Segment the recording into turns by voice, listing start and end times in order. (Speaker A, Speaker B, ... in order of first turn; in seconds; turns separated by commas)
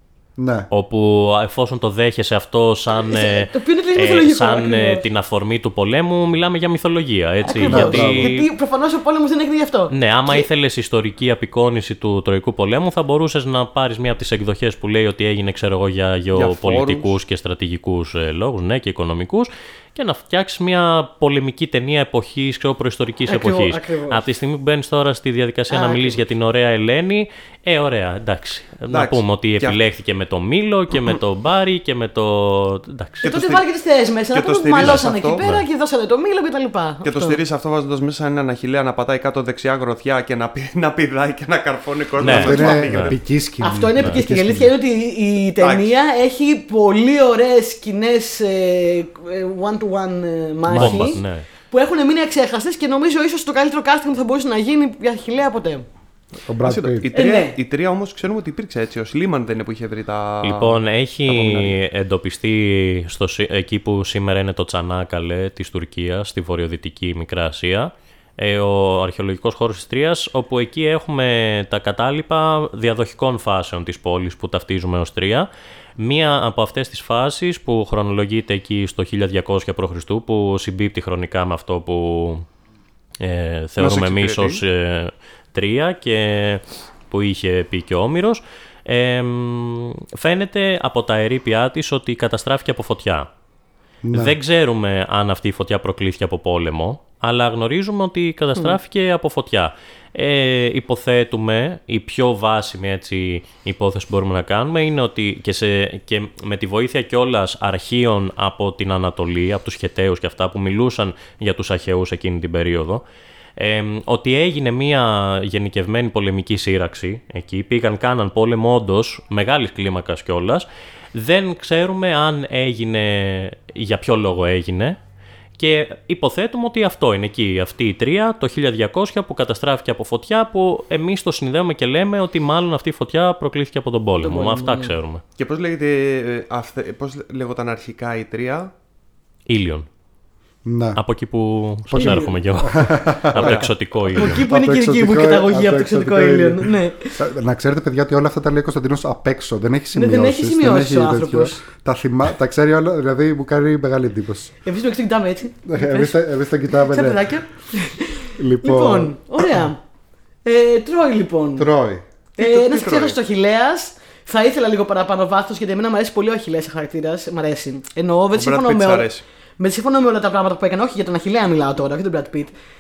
Speaker A: 0.4-0.7, Speaker B: 0.7-8.5, Speaker C: 2.9-5.0, Speaker C: 7.4-10.5, Speaker A: 7.7-8.3, Speaker B: 9.9-33.3, Speaker D: 16.3-17.2, Speaker C: 23.3-24.2, Speaker C: 25.7-26.2, Speaker D: 28.9-29.8, Speaker D: 33.2-33.6, Speaker C: 33.2-37.4, Speaker D: 34.3-35.5, Speaker B: 34.8-35.6, Speaker D: 37.0-43.2, Speaker B: 42.2-43.2, Speaker A: 42.2-44.8, Speaker C: 43.6-55.9, Speaker D: 45.6-45.9, Speaker A: 50.7-51.2, Speaker B: 50.8-51.5, Speaker A: 56.5-57.1, Speaker D: 56.6-61.8, Speaker C: 57.1-57.6, Speaker B: 60.4-82.5, Speaker B: 83.2-93.3, Speaker D: 83.8-84.6, Speaker A: 94.0-94.4, Speaker B: 94.1-113.0, Speaker B: 113.6-125.0, Speaker B: 125.6-135.2, Speaker C: 134.2-134.9, Speaker D: 135.4-138.7, Speaker B: 139.5-139.9, Speaker A: 140.7-141.0, Speaker B: 141.0-144.4, Speaker A: 141.9-154.5, Speaker C: 142.0-142.3, Speaker D: 143.3-143.7, Speaker C: 144.1-147.2, Speaker C: 149.9-151.6, Speaker C: 154.7-159.8, Speaker A: 155.7-157.3, Speaker A: 158.4-159.1, Speaker C: 160.4-161.7, Speaker A: 161.6-162.0, Speaker C: 162.4-172.5, Speaker D: 162.4-163.2, Speaker D: 168.3-169.2